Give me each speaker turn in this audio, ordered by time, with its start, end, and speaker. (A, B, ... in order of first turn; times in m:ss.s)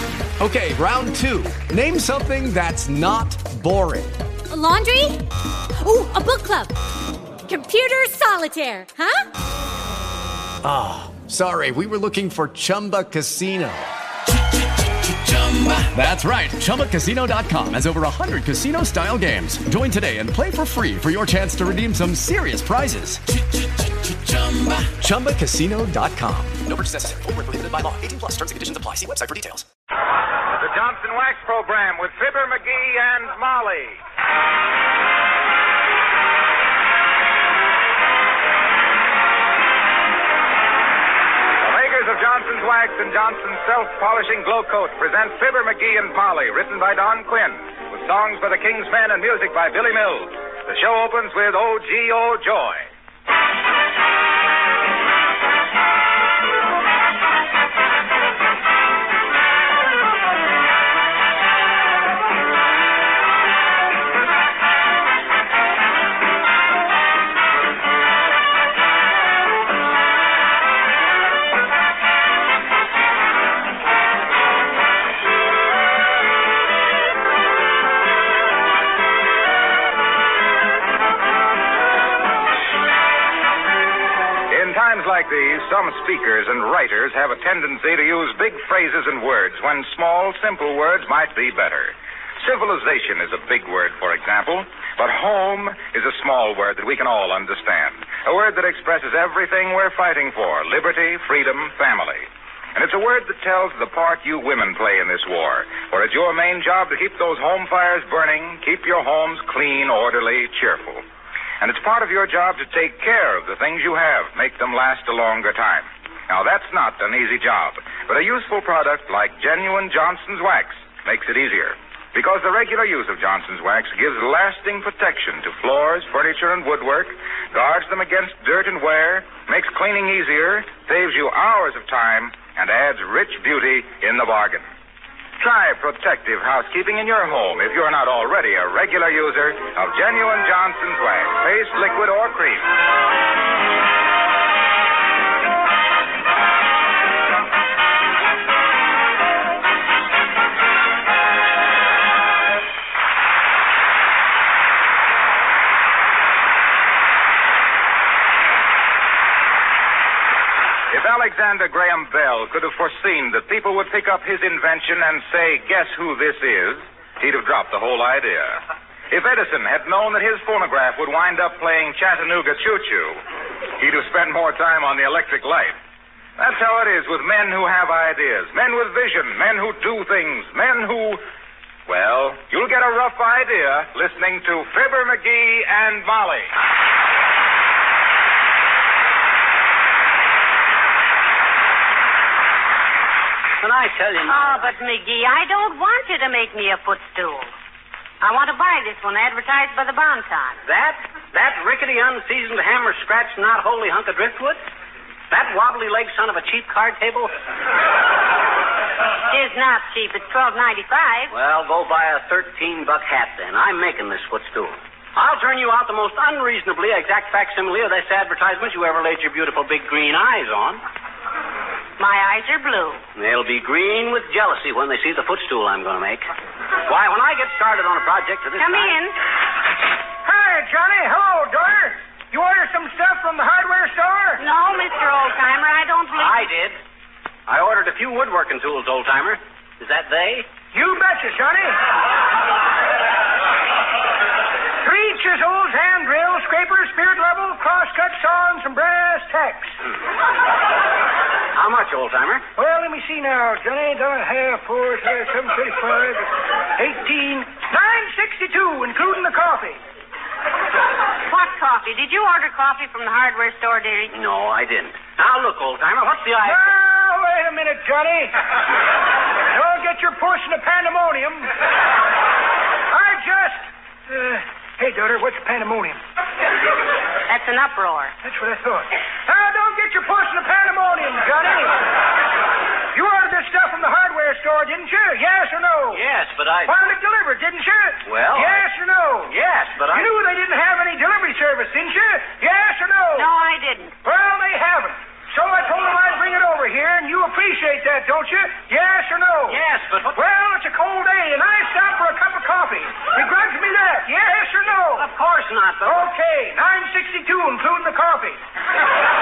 0:00.4-0:04.2 A
0:04.5-0:05.2 B
0:05.8-0:06.7 B
0:07.4-0:09.2 B
0:10.6-0:13.9 A
0:15.0-0:23.2 A
0:24.3-0:26.6 A
0:26.6-0:29.6 C
0:30.5-0:34.0 D
0:41.6-0:52.9 D
1:24.5-1:51.0 D
1:51.6-2:14.7 D
2:15.4-2:22.7 D
2:40.9-2:53.2 D
2:53.8-2:55.8 D
2:56.4-3:01.2 D
3:01.9-3:06.5 D
3:13.6-3:14.4 E
3:14.3-3:17.5 F
3:18.2-3:20.6 F
3:20.6-3:24.6 E
3:25.3-3:27.3 E
3:29.3-3:31.3 F
3:31.3-3:40.8 E
3:42.0-3:43.0 F
3:43.2-3:46.3 E
3:46.8-3:48.9 E
3:48.6-3:49.2 F
3:50.2-3:54.4 G
3:54.4-3:56.5 F
3:56.2-3:56.7 E
3:57.5-4:00.5 E
4:00.7-4:01.8 G
4:04.8-4:09.8 G
4:11.5-4:12.4 E
4:12.6-4:19.8 G
4:21.3-4:24.1 F
4:24.1-4:26.7 E
4:26.4-4:28.3 G
4:29.5-4:31.5 G
4:32.9-4:36.0 G
4:37.3-4:38.1 F
4:38.2-4:41.8 G
4:42.9-4:46.0 G
4:45.9-4:46.7 E
4:46.6-4:49.3 G
4:48.0-4:48.6 E
4:49.3-4:50.1 E
4:49.9-4:53.3 G
4:53.2-4:53.9 F
4:54.0-4:59.6 G
4:59.5-5:00.2 E
5:00.1-5:05.1 G
5:05.0-5:06.1 E
5:05.8-5:08.4 G